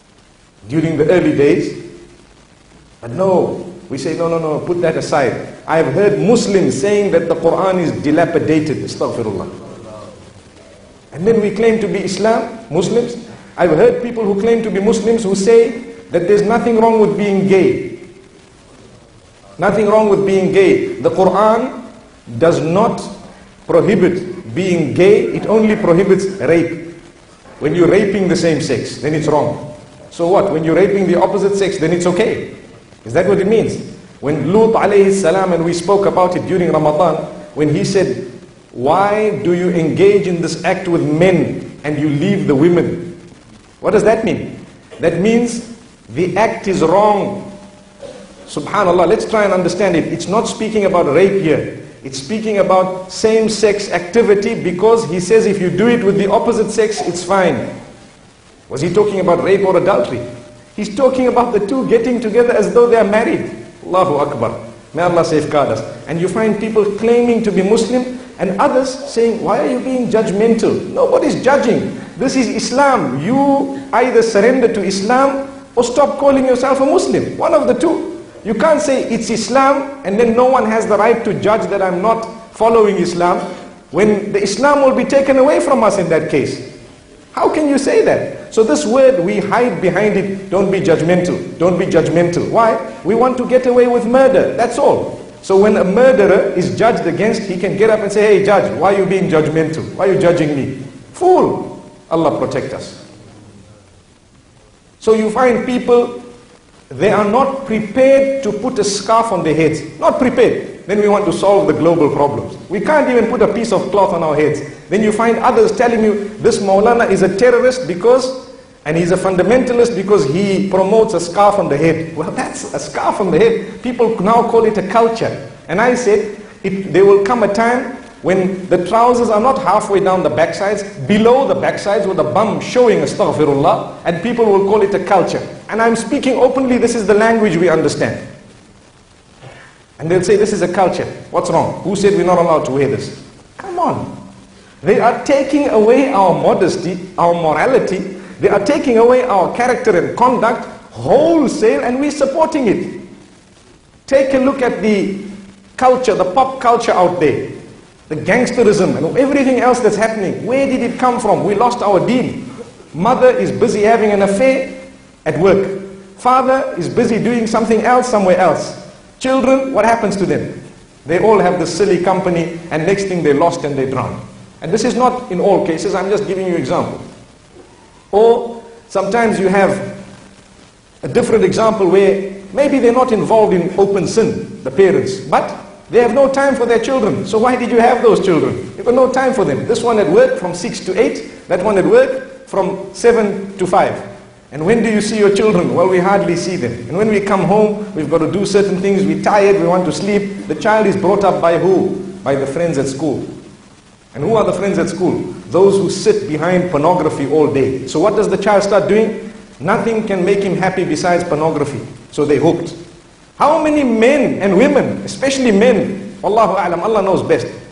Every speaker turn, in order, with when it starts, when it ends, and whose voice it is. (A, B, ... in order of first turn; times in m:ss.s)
0:00.6-0:01.8 A
0:03.0-0:09.5 A
0:11.1-0:18.0 A
0:19.6-0:21.8 A
0:22.3-0:23.1 A
0:23.7-0:26.9 A
0:27.6-0:43.2 A
0:43.8-0:47.5 A
0:48.5-0:57.7 A
0:58.7-1:26.7 A
1:27.3-1:43.0 A
1:45.0-1:46.2 A
1:46.9-2:18.2 A
2:20.0-2:24.1 A
2:24.8-2:33.0 A
2:34.1-2:37.6 A
2:38.1-2:57.0 A
2:58.1-2:59.9 A
3:01.0-3:23.3 A
3:24.1-3:32.8 A
3:33.4-3:37.5 A